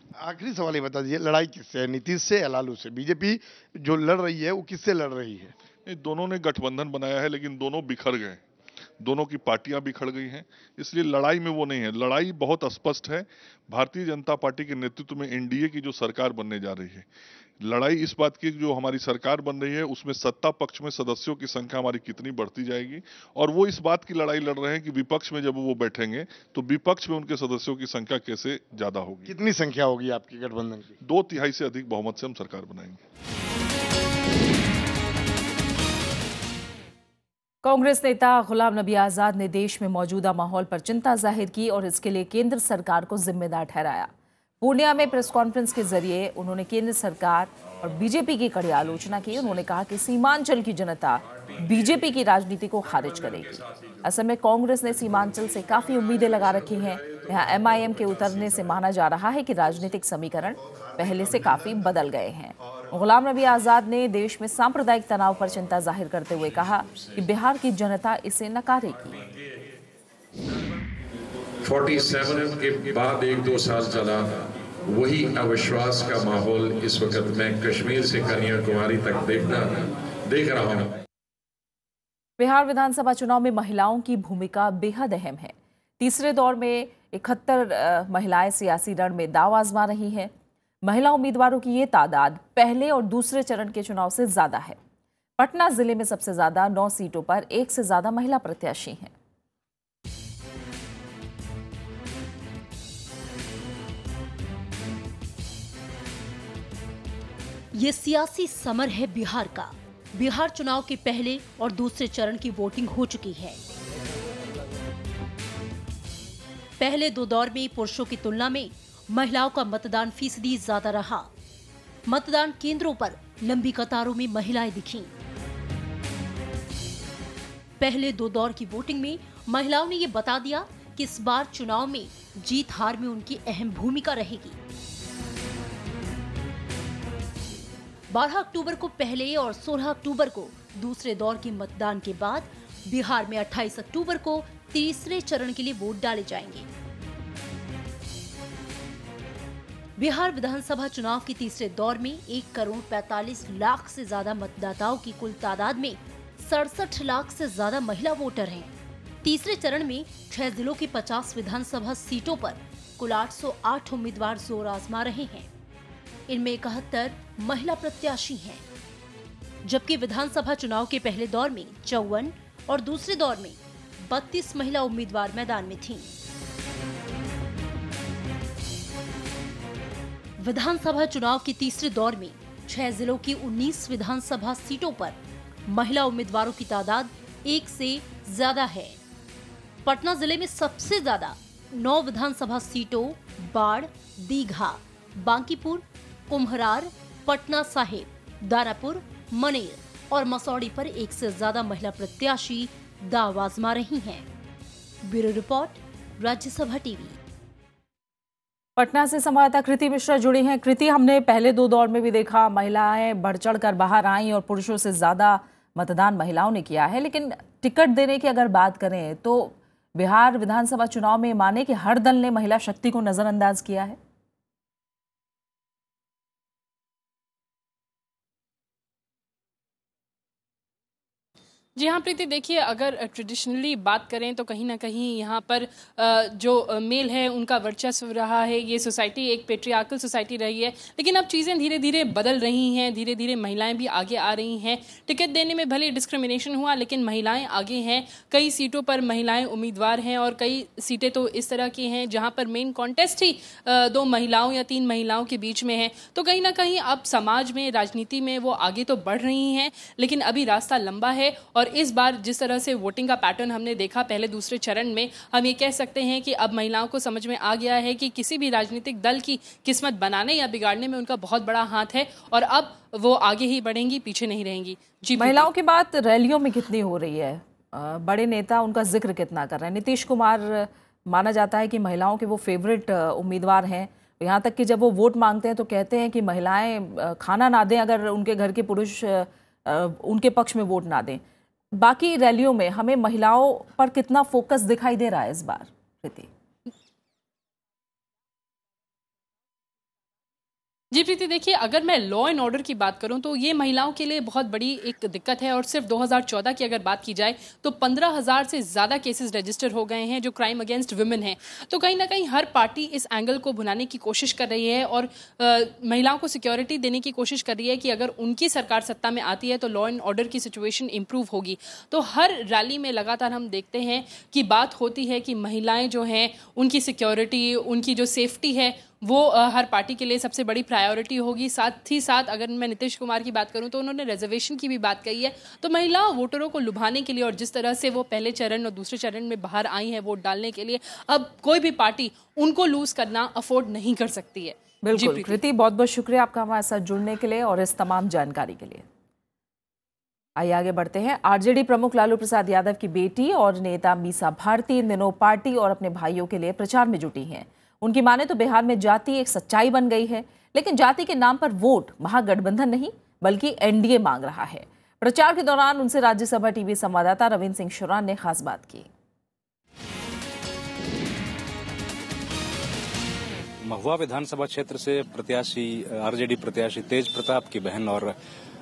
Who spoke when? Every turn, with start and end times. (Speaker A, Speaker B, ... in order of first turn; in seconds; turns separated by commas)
Speaker A: 0.2-5.5, Speaker B: 5.8-8.4, Speaker B: 9.0-17.1, Speaker B: 17.6-29.3, Speaker A: 29.3-30.9, Speaker B: 31.0-33.0, Speaker C: 37.6-69.2, Speaker D: 71.6-80.9, Speaker C: 82.4-90.3, Speaker C: 90.8-94.8, Speaker C: 95.4-99.1, Speaker E: 107.7-113.6, Speaker E: 116.8-121.3, Speaker E: 122.1-125.1, Speaker E: 127.8-134.6, Speaker E: 138.1-146.7, Speaker E: 150.0-158.7, Speaker E: 159.2-165.5, Speaker E: 166.3-168.6, Speaker E: 169.6-176.1, Speaker E: 180.4-189.0, Speaker E: 189.8-204.3, Speaker E: 205.0-207.2, Speaker C: 208.8-224.0, Speaker F: 231.8-275.5, Speaker C: 275.2-291.2, Speaker C: 291.8-296.3, Speaker F: 300.9-345.4, Speaker C: 344.8-348.8, Speaker C: 350.4-368.9, Speaker G: 373.6-378.1